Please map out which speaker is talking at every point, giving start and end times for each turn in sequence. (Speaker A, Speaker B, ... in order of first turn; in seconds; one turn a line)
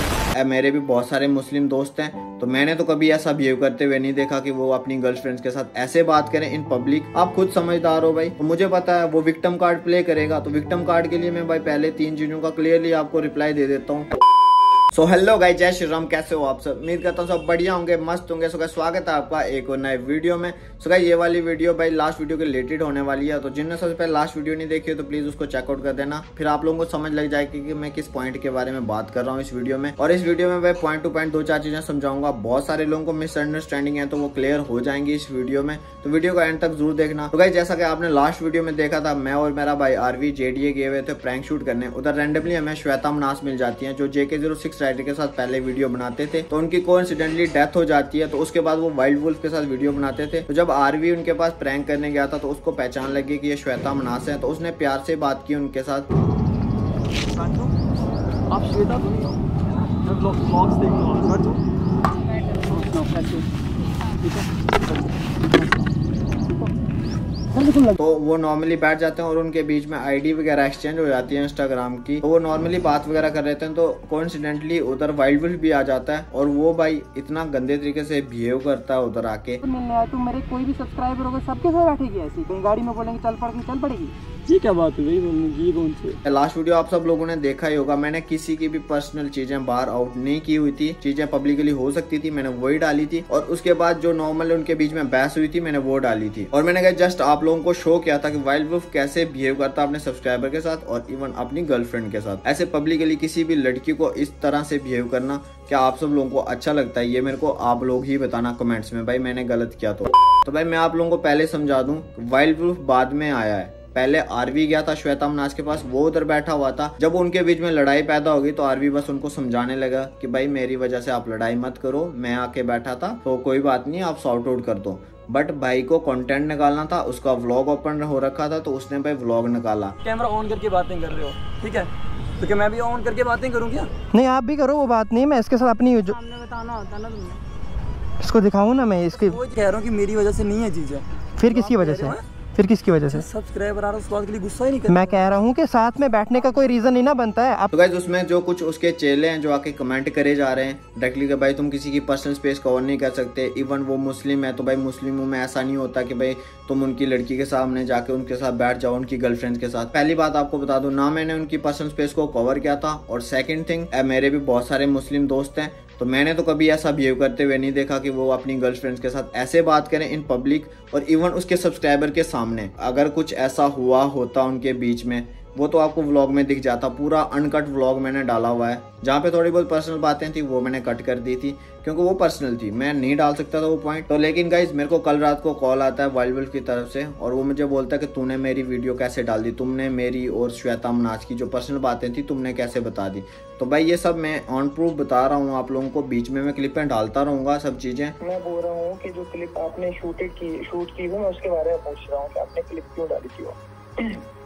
Speaker A: 0.3-14.1
Speaker A: 14.9-56.1
Speaker B: 57.3-57.7
Speaker B: 58.5-61.6
Speaker C: 62.2-63.0
Speaker B: 62.7-63.5
Speaker C: 63.8-64.3
Speaker B: 64.2-65.8
Speaker B: 67.5-68.0
Speaker A: 68.0-79.6
Speaker D: 79.6-84.2
Speaker B: 84.5-86.2
Speaker A: 86.2-130.0
Speaker B: 130.0-133.9
Speaker D: 134.1-136.2
Speaker C: 136.1-137.4
Speaker D: 138.2-139.4
Speaker B: 139.1-142.2
Speaker D: 141.4-143.2
Speaker B: 143.1-145.2
Speaker D: 144.9-147.7
Speaker A: 147.7-198.2
Speaker E: 198.2-204.2